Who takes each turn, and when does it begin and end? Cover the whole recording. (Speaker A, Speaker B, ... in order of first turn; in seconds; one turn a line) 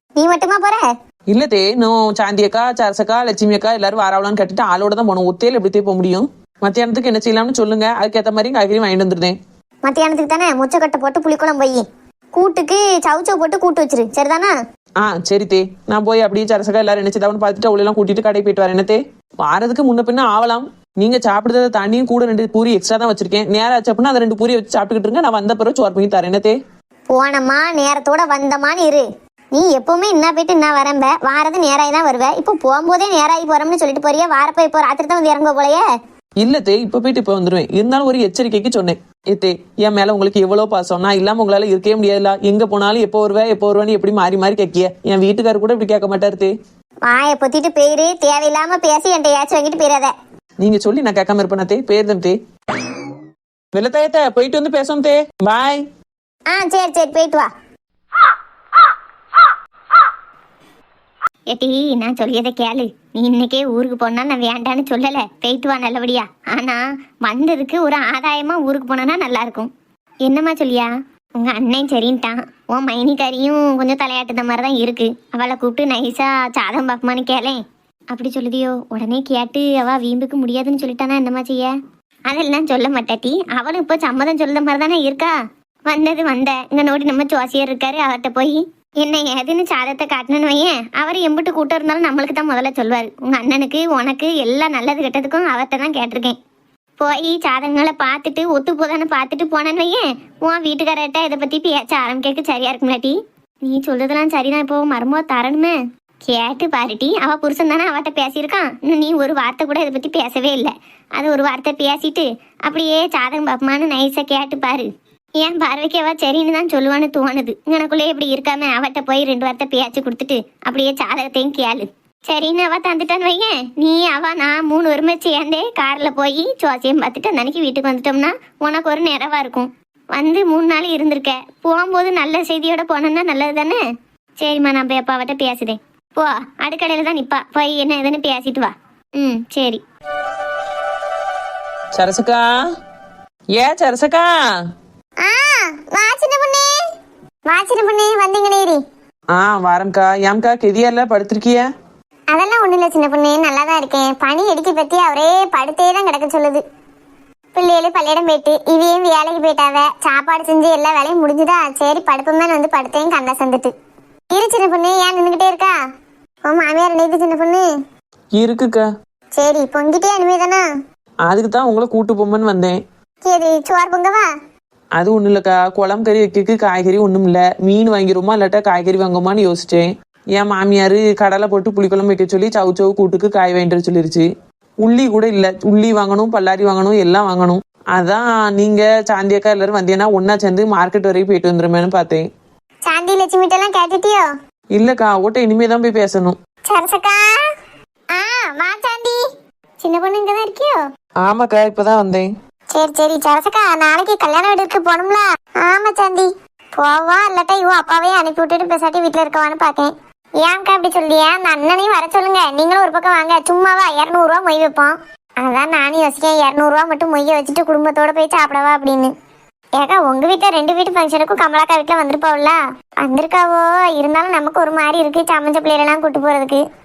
Speaker A: 0.2-0.9
Speaker B: 1.3-9.4
Speaker A: 9.8-14.6
Speaker B: 15.0-26.6
Speaker A: 27.1-35.9
Speaker B: 36.4-46.5
Speaker A: 47.0-50.1
Speaker B: 50.6-52.4
Speaker B: 53.8-55.8
Speaker A: 56.5-57.5
Speaker A: 61.5-69.7
Speaker A: 70.2-77.6
Speaker A: 78.1-81.7
Speaker A: 82.3-85.4
Speaker A: 85.9-96.4
Speaker A: 97.0-105.8
Speaker A: 106.3-114.9
Speaker A: 115.4-133.8
Speaker A: 134.4-139.8
Speaker B: 141.9-142.5
Speaker B: 143.6-144.3
Speaker C: 145.2-146.8
Speaker C: 147.5-148.8
Speaker B: 149.3-151.7
Speaker C: 152.3-156.6
Speaker C: 157.6-163.7
Speaker C: 164.3-165.8
Speaker C: 166.5-167.7
Speaker B: 168.3-168.9
Speaker C: 169.3-170.7
Speaker B: 171.3-172.8
Speaker C: 173.2-174.3
Speaker B: 175.0-184.3
Speaker B: 184.8-192.3
Speaker C: 192.8-194.3
Speaker B: 194.7-196.4
Speaker C: 196.7-197.5
Speaker C: 198.1-199.2
Speaker C: 199.8-200.8
Speaker B: 201.3-202.3
Speaker C: 202.7-219.1
Speaker C: 219.8-226.6